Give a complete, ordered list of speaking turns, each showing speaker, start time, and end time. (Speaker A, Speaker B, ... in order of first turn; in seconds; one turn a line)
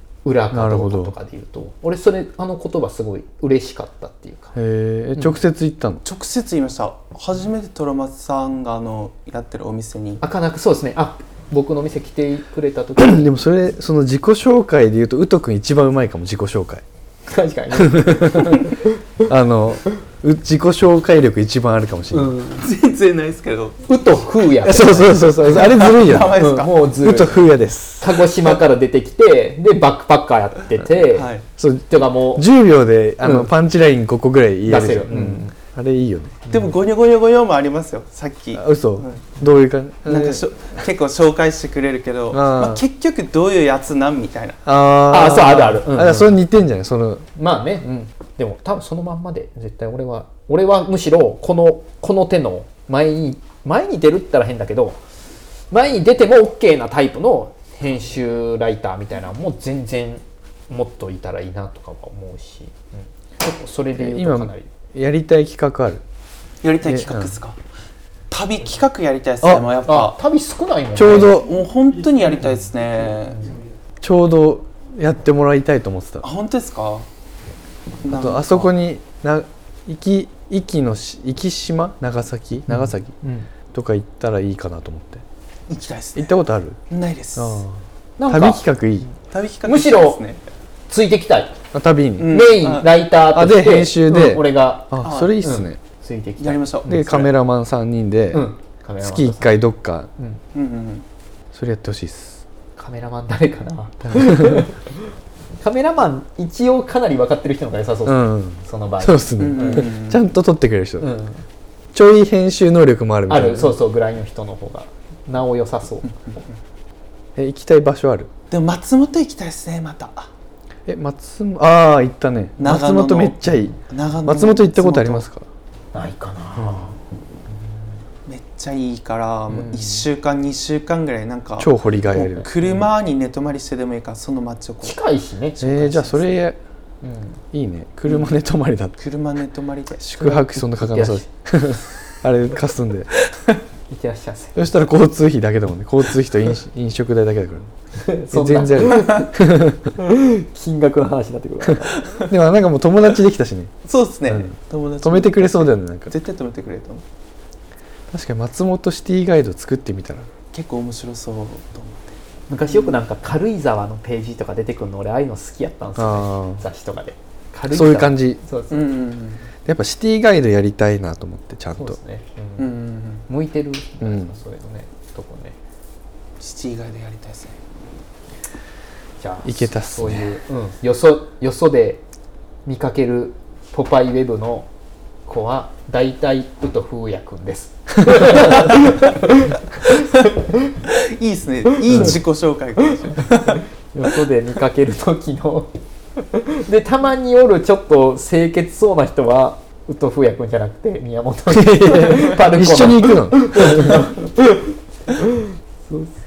Speaker A: 0.2-4.5
Speaker B: 0.5-1.1
Speaker B: 4.5-6.0
Speaker A: 5.1-5.4
Speaker C: 6.0-10.2
Speaker A: 10.2-13.3
Speaker B: 13.0-16.8
Speaker A: 17.3-18.9
Speaker B: 17.9-18.7
Speaker B: 19.2-22.3
Speaker A: 22.1-22.6
Speaker C: 22.6-23.8
Speaker A: 23.9-27.5
Speaker B: 24.6-26.4
Speaker C: 25.5-26.9
Speaker B: 27.0-28.1
Speaker A: 28.0-31.3
Speaker C: 31.1-31.4
Speaker B: 31.6-36.4
Speaker A: 31.9-32.5
Speaker A: 33.2-33.5
Speaker A: 34.6-35.5
Speaker A: 36.5-36.7
Speaker C: 36.5-39.2
Speaker B: 38.5-40.5
Speaker C: 40.0-44.6
Speaker B: 42.3-42.8
Speaker B: 44.6-47.2
Speaker A: 45.1-46.4
Speaker A: 47.3-55.0
Speaker A: 55.7-64.7
Speaker B: 63.9-66.0
Speaker C: 66.6-67.6
Speaker B: 66.8-67.3
Speaker C: 68.3-70.2
Speaker B: 69.4-69.7
Speaker A: 69.8-71.3
Speaker B: 70.9-71.6
Speaker C: 71.3-73.5
Speaker B: 74.0-76.2
Speaker C: 76.2-77.0
Speaker C: 78.0-78.7
Speaker B: 78.1-83.1
Speaker A: 82.7-83.5
Speaker B: 83.7-85.2
Speaker C: 85.7-87.6
Speaker B: 86.2-86.8
Speaker B: 87.3-89.1
Speaker A: 88.2-89.1
Speaker C: 89.3-90.4
Speaker A: 89.6-90.2
Speaker A: 90.9-91.5
Speaker B: 91.7-92.3
Speaker C: 92.2-92.9
Speaker A: 92.2-97.2
Speaker B: 93.3-95.8
Speaker C: 95.0-95.4
Speaker C: 96.4-97.3
Speaker B: 96.8-98.4
Speaker A: 98.3-100.4
Speaker B: 99.0-100.1
Speaker C: 100.5-101.0
Speaker B: 101.5-102.4
Speaker A: 102.8-109.9
Speaker B: 104.0-104.7
Speaker B: 108.0-111.1
Speaker C: 109.4-110.2
Speaker A: 111.0-111.4
Speaker B: 111.9-113.7
Speaker A: 113.3-116.1
Speaker B: 117.3-118.3
Speaker C: 118.5-120.3
Speaker B: 120.9-123.7
Speaker C: 122.6-125.3
Speaker B: 124.2-125.4
Speaker A: 125.9-127.0
Speaker B: 126.5-126.8
Speaker C: 128.2-135.0
Speaker A: 129.5-130.1
Speaker B: 131.6-132.5
Speaker A: 132.4-132.9
Speaker A: 134.8-136.3
Speaker B: 135.6-136.6
Speaker A: 137.0-137.4
Speaker B: 137.5-139.0
Speaker C: 139.0-140.0
Speaker B: 140.0-143.1
Speaker A: 140.2-141.2
Speaker A: 143.9-144.7
Speaker B: 144.5-147.7
Speaker A: 148.0-149.3
Speaker B: 148.3-149.9
Speaker A: 150.0-152.1
Speaker B: 152.3-153.7
Speaker C: 153.8-157.0
Speaker B: 154.3-156.1
Speaker B: 158.1-160.3
Speaker C: 160.5-163.0
Speaker A: 162.5-168.9
Speaker B: 165.9-166.6
Speaker B: 167.7-168.4
Speaker C: 168.7-169.5
Speaker B: 169.7-172.0
Speaker A: 171.8-172.7
Speaker C: 172.6-173.3
Speaker A: 173.3-175.6
Speaker B: 174.0-174.3
Speaker C: 176.4-177.6
Speaker A: 179.2-182.0
Speaker B: 179.4-180.3
Speaker A: 182.7-184.7
Speaker A: 185.2-190.7
Speaker C: 190.9-193.6
Speaker A: 191.9-192.1
Speaker B: 191.9-192.2
Speaker A: 193.0-195.7
Speaker A: 196.3-206.1
Speaker B: 201.5-204.1